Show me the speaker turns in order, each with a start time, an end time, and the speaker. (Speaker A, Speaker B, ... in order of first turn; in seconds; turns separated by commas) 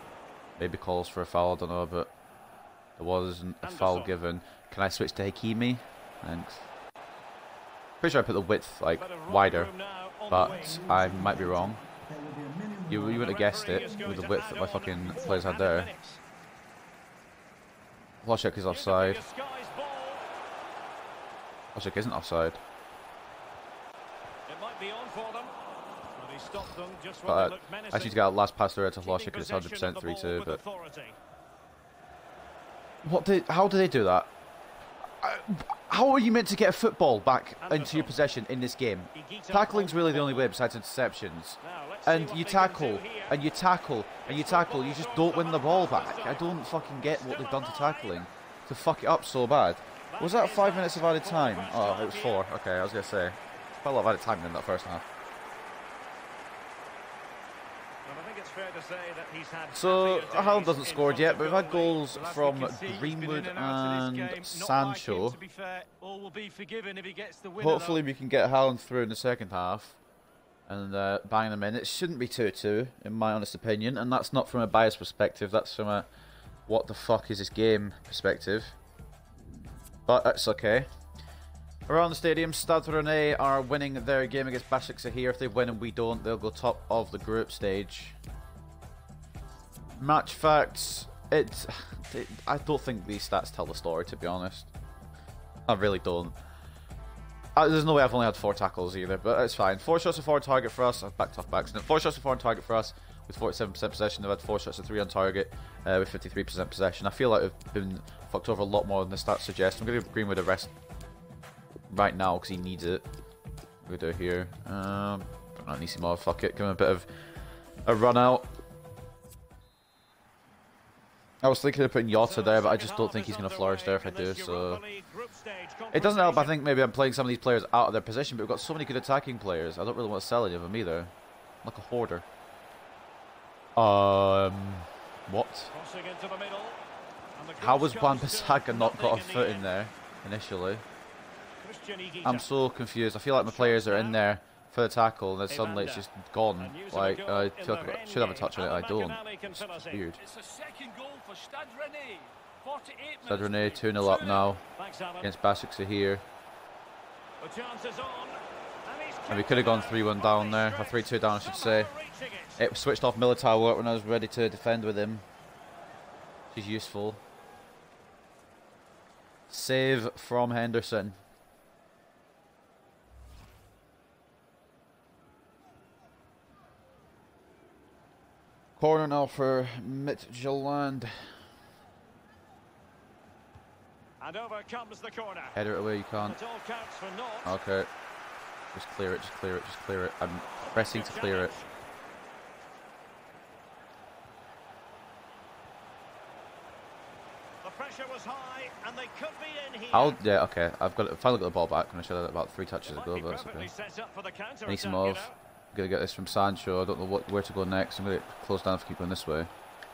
Speaker A: 0.6-2.1, Speaker A: 3.0-6.7, Speaker B: 3.6-4.1, Speaker A: 8.0-9.7, Speaker B: 8.9-10.9, Speaker A: 10.3-11.8, Speaker C: 10.3-14.0, Speaker A: 12.9-15.9, Speaker B: 13.0-16.2, Speaker A: 18.2-19.2, Speaker B: 18.7-20.3, Speaker A: 21.8-22.6, Speaker B: 24.5-25.5, Speaker B: 26.2-28.2, Speaker A: 27.2-30.6, Speaker B: 29.0-31.2, Speaker A: 33.0-34.3, Speaker A: 35.2-55.0, Speaker B: 37.6-38.2, Speaker B: 39.1-40.5, Speaker B: 41.6-43.4, Speaker B: 44.2-46.5, Speaker B: 47.0-48.3, Speaker B: 50.1-52.5, Speaker B: 58.0-62.0, Speaker A: 59.7-65.4, Speaker D: 62.1-68.0, Speaker A: 67.6-70.0, Speaker A: 70.7-76.1, Speaker A: 76.7-78.8, Speaker A: 80.1-80.9, Speaker A: 81.9-88.2, Speaker A: 90.0-94.7, Speaker A: 95.7-96.3, Speaker A: 97.5-110.7, Speaker A: 111.9-113.0, Speaker A: 113.8-117.1, Speaker A: 117.8-118.5, Speaker A: 121.4-124.8, Speaker B: 122.1-126.6, Speaker A: 125.9-131.1, Speaker A: 131.6-132.3, Speaker A: 133.8-135.7, Speaker B: 135.7-136.8, Speaker B: 137.4-139.7, Speaker A: 137.6-140.8, Speaker B: 141.6-142.5, Speaker A: 142.2-150.2, Speaker B: 143.3-144.2, Speaker B: 145.5-146.1, Speaker B: 146.6-150.1, Speaker C: 150.2-154.4, Speaker A: 153.2-154.6, Speaker B: 154.0-155.3, Speaker A: 155.2-156.2, Speaker B: 157.4-162.6, Speaker A: 159.3-161.9, Speaker A: 162.6-165.2, Speaker A: 166.5-167.2, Speaker A: 169.5-171.2, Speaker A: 178.8-181.1, Speaker B: 184.2-185.6, Speaker A: 185.6-186.4, Speaker B: 186.2-187.5, Speaker A: 187.4-187.9, Speaker A: 188.7-191.5, Speaker B: 190.7-191.7, Speaker B: 197.6-200.2, Speaker A: 199.9-203.7, Speaker B: 202.8-205.4, Speaker A: 204.7-209.5